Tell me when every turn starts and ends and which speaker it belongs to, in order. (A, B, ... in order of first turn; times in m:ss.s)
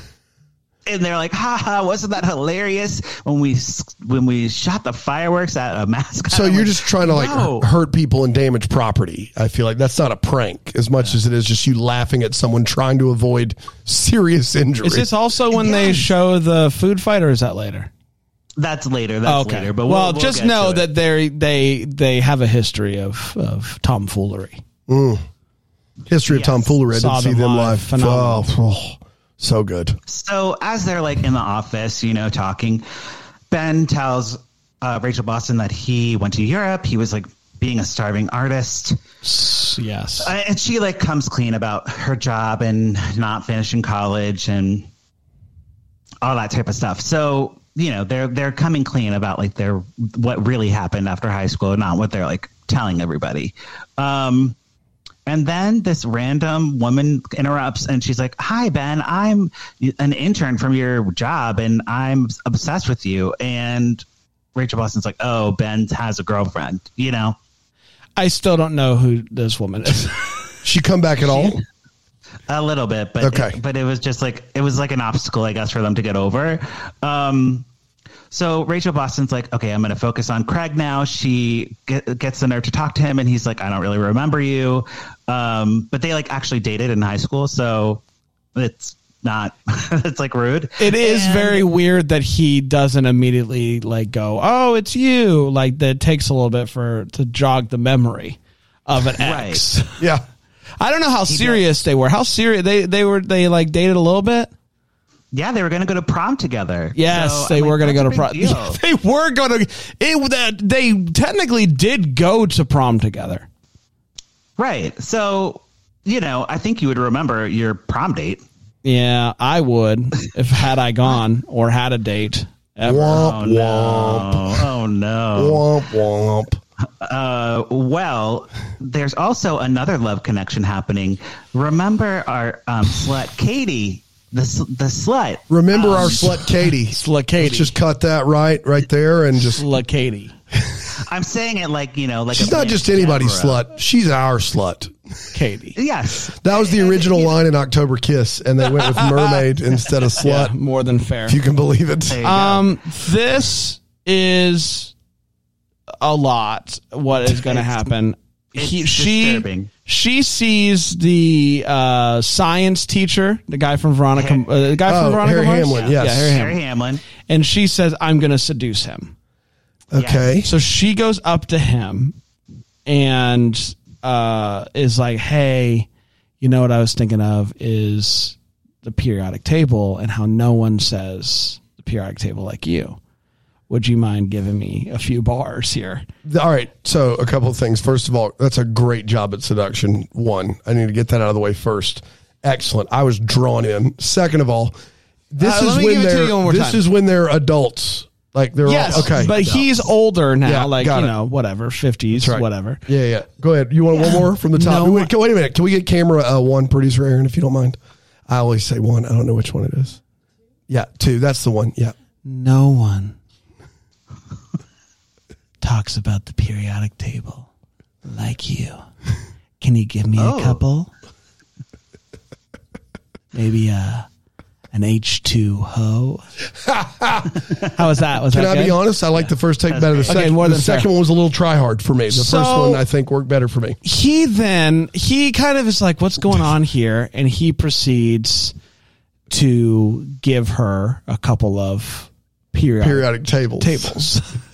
0:00.8-0:07.7 A
0:06.3-0:15.1 B
0:14.8-0:17.9 C
0:15.5-0:16.1 A
0:18.6-0:20.9 A
0:19.2-0:24.6 C
0:24.9-0:25.2 B
0:26.1-0:30.0 B
0:26.3-0:26.7 A
0:26.9-0:28.5 C
0:30.1-0:32.8 A
0:33.5-0:39.0 A
0:39.2-0:40.3 C
0:40.2-0:44.9 A
0:46.2-0:54.6 A
0:55.2-1:04.0 A
1:04.5-1:07.4 A
1:08.2-1:10.4 C
1:10.6-1:11.6 B
1:11.2-1:11.6 A
1:12.5-1:17.6 A
1:13.2-1:13.6 B
1:18.3-1:28.0 A
1:28.5-1:31.7 A
1:30.8-1:40.0 C
1:39.2-1:39.6 A
1:40.8-1:44.5 C
1:41.3-1:41.6 A
1:45.3-1:48.8 A
1:46.9-1:53.5 C
1:54.6-1:58.4 A
1:58.8-2:03.3 C
2:02.8-2:04.7 B
2:03.1-2:05.6 A
2:05.3-2:06.6 B
2:07.0-2:16.3 A
2:15.5-2:19.6 B
2:16.9-2:17.7 C
2:19.5-2:20.3 C
2:20.9-2:23.6 A
2:22.3-2:24.9 B
2:25.3-2:25.8 C
2:25.8-2:27.4 A
2:26.4-2:30.5 B
2:28.8-2:29.4 C
2:30.2-2:31.4 C
2:31.3-2:32.2 B
2:32.1-2:32.7 A
2:32.2-2:34.9 C
2:36.0-2:46.6 C
2:38.5-2:39.7 A
2:44.1-2:44.5 A
2:44.8-2:46.4 B
2:45.7-2:47.0 A
2:47.3-2:49.1 C
2:49.9-2:50.5 B
2:49.9-2:50.3 A
2:50.4-2:52.2 C
2:52.8-2:55.9 C
2:56.4-3:03.0 C
3:03.7-3:06.0 C
3:06.2-3:14.7 B
3:15.3-3:19.4 B
3:15.4-3:16.8 C
3:18.6-3:22.8 C
3:18.8-3:19.8 A
3:20.4-3:21.1 B
3:22.2-3:27.8 B
3:24.5-3:25.1 C
3:28.3-3:30.0 B
3:30.7-3:31.9 B
3:32.2-3:33.2 C
3:35.6-3:37.5 C
3:38.0-3:38.8 C
3:39.6-3:40.9 C
3:40.2-3:40.6 A
3:43.3-3:44.1 C
3:44.7-3:46.2 C
3:46.6-3:47.3 B
3:47.6-3:48.8 C
3:48.3-3:53.8 B
3:49.7-3:50.2 A
3:50.1-3:50.9 C
3:52.1-3:52.8 C
3:53.8-3:58.5 C
3:59.3-4:04.4 C
4:02.8-4:04.0 B